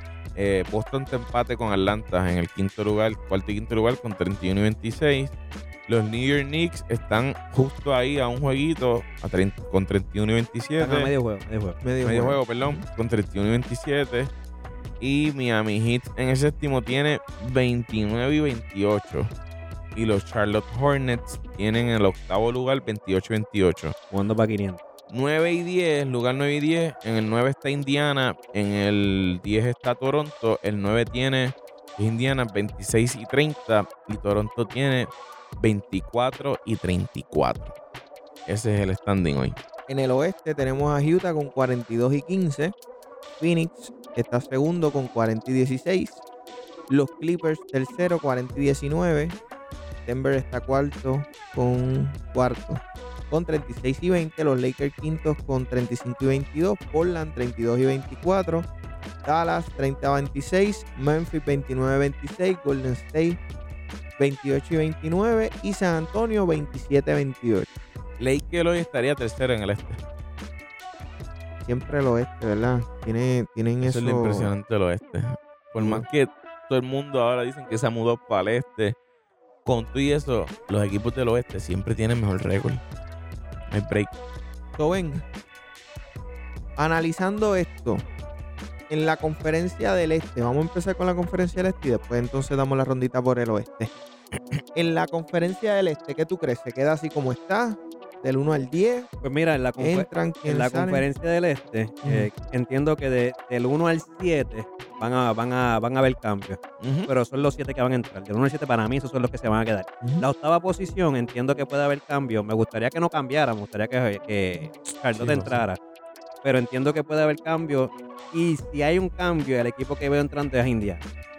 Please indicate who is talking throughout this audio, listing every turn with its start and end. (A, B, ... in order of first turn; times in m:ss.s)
0:00.4-0:05.3 A
0:05.9-0:11.1 A
0:10.8-0:11.8 B
0:11.8-0:12.8 C
0:12.0-0:14.3 A
0:15.0-0:19.3 A
0:20.0-0:24.0 A
0:24.1-0:24.8 B
0:25.1-0:37.8 A
0:38.5-0:39.6 A
0:39.9-0:42.7 C
0:43.4-0:46.2 C
0:46.9-0:49.4 C
0:50.0-0:58.7 C
0:59.2-1:03.4 C
1:04.2-1:07.7 C
1:08.2-1:10.0 A
1:11.6-1:14.5 C
1:13.8-1:19.0 A
1:15.8-1:16.1 C
1:19.6-1:22.8 A
1:23.7-1:24.1 A
1:24.8-1:25.2 C
1:26.8-1:28.0 C
1:28.9-1:33.9 C
1:34.8-1:39.1 C
1:39.2-1:55.8 B
1:39.8-1:41.0 C
1:42.0-1:42.3 C
1:46.8-1:47.1 A
1:55.1-1:55.6 A
1:56.4-2:01.0 B